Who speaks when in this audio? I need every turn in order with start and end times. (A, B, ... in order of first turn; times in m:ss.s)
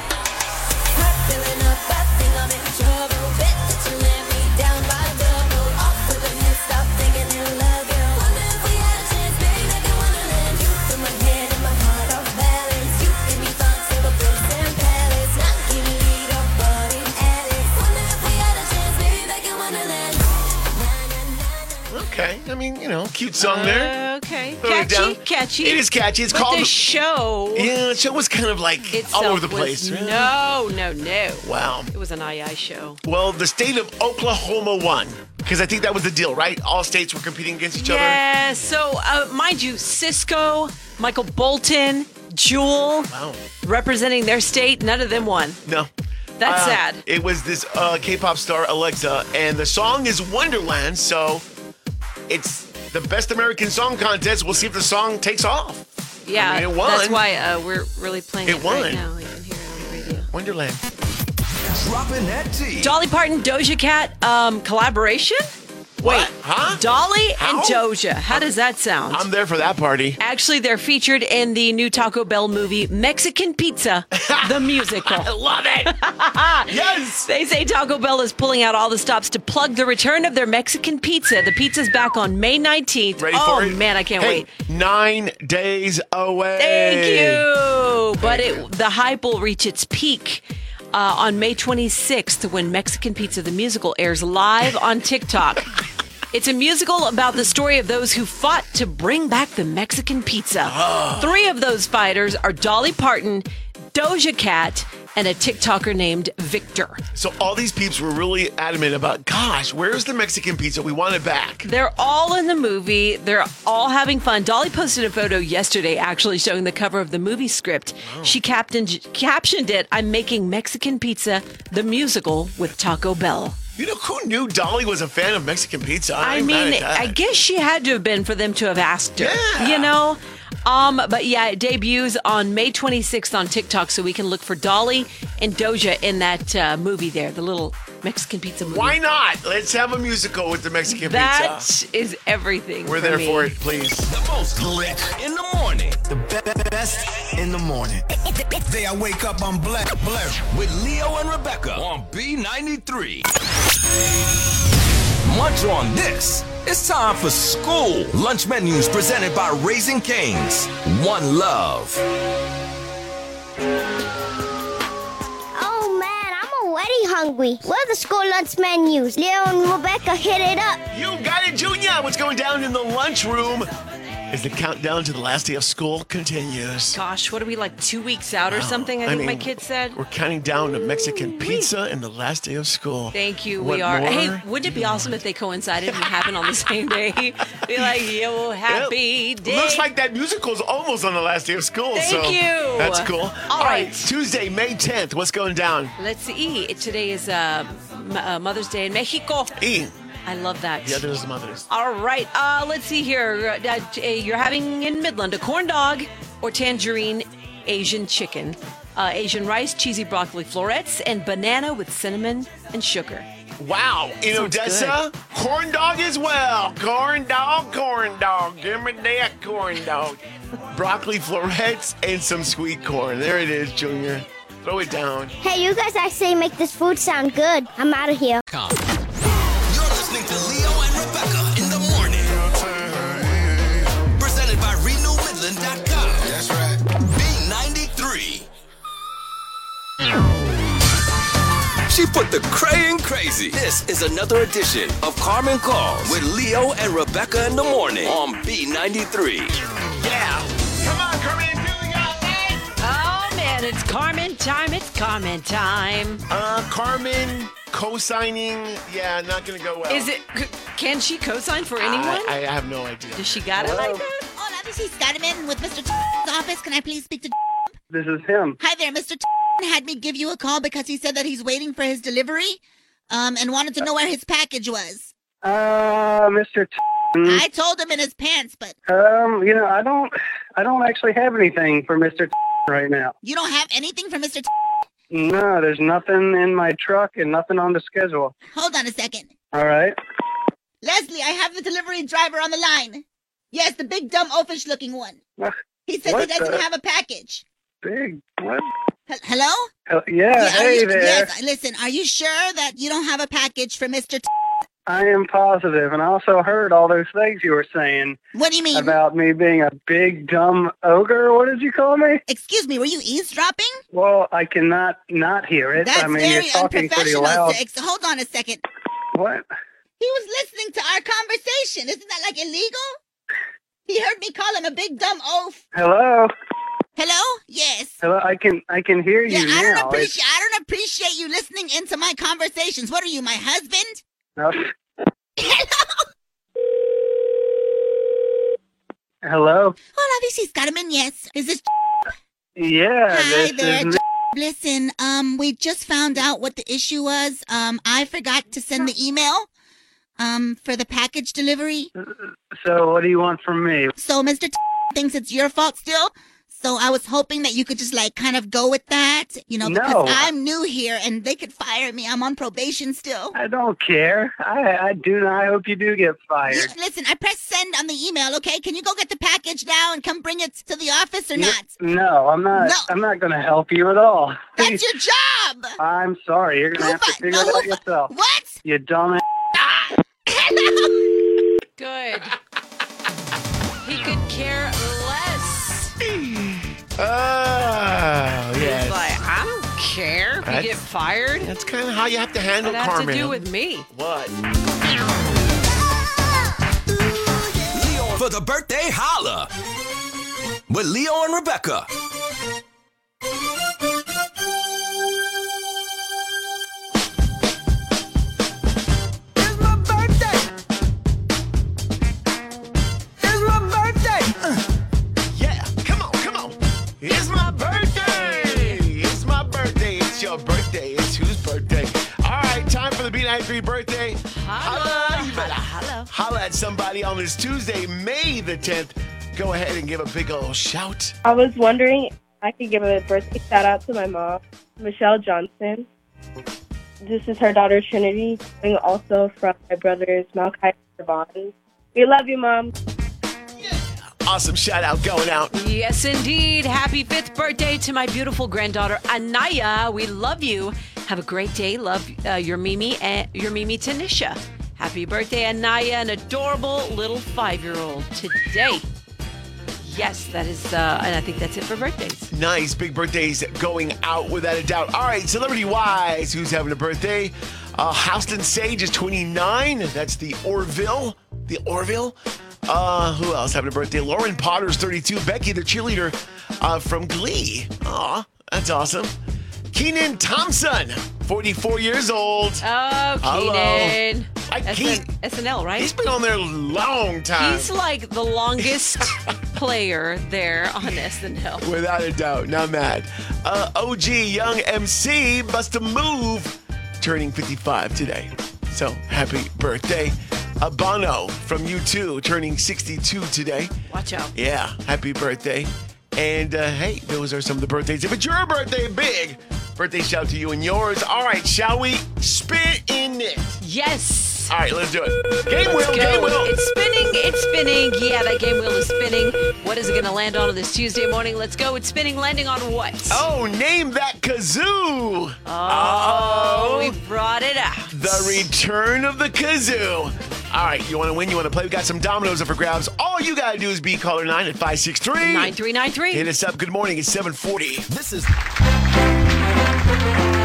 0:00.9-0:21.9 A
0:21.9-0:24.0 B
0:23.4-0:27.7 C
0:24.6-0:26.8 B
0:27.6-0:30.3 B
0:28.9-0:33.0 C
0:31.4-0:31.9 B
0:33.0-0:38.2 B
0:37.8-0:43.1 C
0:43.1-0:43.4 B
0:43.6-0:45.6 C
0:45.6-0:45.9 B
0:46.4-0:47.0 C
0:46.4-0:51.4 B
0:52.3-0:57.2 B
0:56.2-1:00.3 C
0:58.5-0:59.0 B
1:00.2-1:00.9 B
1:01.7-1:02.9 D
1:02.8-1:09.3 C
1:06.0-1:06.8 B
1:07.4-1:08.5 B
1:09.1-1:10.2 B
1:10.2-1:15.3 C
1:14.1-1:16.0 B
1:15.9-1:24.5 C
1:16.7-1:17.3 B
1:23.2-1:27.5 B
1:26.6-1:35.7 C
1:28.2-1:28.6 B
1:36.3-1:47.0 C
1:40.6-1:41.4 B
1:47.1-1:51.7 B
1:51.6-2:03.6 C
1:58.0-1:58.4 B
2:03.8-2:07.2 B
2:06.2-2:19.0 C
2:09.2-2:09.9 B
2:18.6-2:21.7 B
2:20.9-2:23.5 C
2:22.8-2:24.1 B
2:24.1-2:26.0 D
2:26.1-2:28.0 E
2:28.7-2:30.4 E
2:30.4-2:33.3 D
2:35.2-2:42.0 D
2:45.6-2:50.8 F
2:50.9-2:53.7 B
2:54.3-2:57.0 B
2:56.9-3:00.0 C
2:58.5-3:05.1 B
3:01.1-3:01.7 C
3:03.1-3:09.9 C
3:08.7-3:16.0 B
3:11.9-3:14.0 C
3:16.0-3:19.6 C
3:19.6-3:19.9 B
3:20.2-3:21.0 C
3:20.8-3:21.6 B
3:21.7-3:33.3 C
3:33.6-3:40.2 B
3:34.3-3:35.0 C
3:40.7-3:45.4 B
3:45.4-3:48.4 F
3:49.7-3:52.5 D
3:54.2-3:56.3 D
3:56.3-3:56.7 E
3:57.0-3:58.5 D
4:01.9-4:09.6 D
4:10.0-4:12.7 B
4:12.8-4:16.2 C
4:16.3-4:20.1 B
4:19.9-4:22.4 C
4:21.8-4:23.8 B
4:23.2-4:24.2 C
4:23.6-4:24.0 G
4:24.3-4:27.4 H
4:27.9-4:28.6 G
4:28.6-4:32.6 H
4:33.1-4:35.1 H
4:35.4-4:37.4 G
4:37.2-4:38.8 H
4:38.9-4:43.1 G
4:43.2-4:44.5 H
4:45.1-4:48.3 G
4:48.5-4:49.3 H
4:49.5-4:50.0 G
4:50.8-4:55.2 H
4:55.9-4:57.4 H
4:56.1-4:56.6 G
4:57.8-4:58.6 G
4:59.1-4:59.7 H
4:59.9-5:01.3 G
5:00.3-5:04.3 H
5:04.9-5:08.2 G
5:08.4-5:09.0 H
5:08.7-5:12.2 G
5:12.3-5:13.8 H
5:13.9-5:17.6 G
5:15.8-5:18.6 H
5:19.1-5:19.4 G
5:20.0-5:23.0 H
5:23.9-5:25.6 H
5:25.8-5:26.3 G
5:27.0-5:28.0 H
5:28.0-5:30.1 G
5:29.3-5:34.0 H
5:34.4-5:34.7 G
5:35.4-5:36.0 H
5:39.2-5:39.8 G
5:40.0-5:41.6 H
5:42.6-5:44.0 G
5:43.1-5:49.5 H
5:50.2-5:51.9 H
5:52.6-5:53.9 G
5:54.0-6:03.4 H
5:59.6-6:00.2 G
6:03.3-6:06.7 G
6:06.5-6:11.7 H
6:11.4-6:14.8 G
6:12.6-6:12.9 H
6:14.6-6:15.8 H
6:15.8-6:18.1 G
6:16.8-6:18.6 H
6:18.6-6:19.2 G
6:19.6-6:19.9 B
6:20.3-6:21.0 H
6:21.8-6:22.4 C
6:23.8-6:26.0 C
6:26.0-6:29.2 B
6:28.6-6:31.5 C
6:30.4-6:30.8 B
6:31.4-6:34.4 B
6:32.6-6:33.9 C
6:37.7-6:39.5 D
6:40.7-6:41.9 D
6:55.3-7:11.1 B
6:57.2-6:58.8 C
7:04.3-7:06.1 C
7:11.2-7:15.9 I
7:17.0-7:22.7 I
7:23.6-7:25.5 B
7:25.5-7:38.9 C
7:39.8-7:42.3 C
7:42.3-7:59.1 B
7:59.7-8:02.6 B
8:02.6-8:05.9 C
8:03.2-8:05.1 B
8:05.8-8:07.7 B
8:07.4-8:11.7 C
8:08.6-8:09.4 B
8:11.6-8:23.7 B
8:23.9-8:24.3 C
8:24.4-8:33.6 B
8:33.6-8:34.5 C
8:34.5-8:36.5 B
8:35.6-8:43.2 C
8:43.1-8:47.0 B
8:45.4-8:48.5 C
8:47.9-8:55.6 B
8:55.2-8:56.3 C
8:56.1-8:57.9 B
8:57.9-8:58.3 D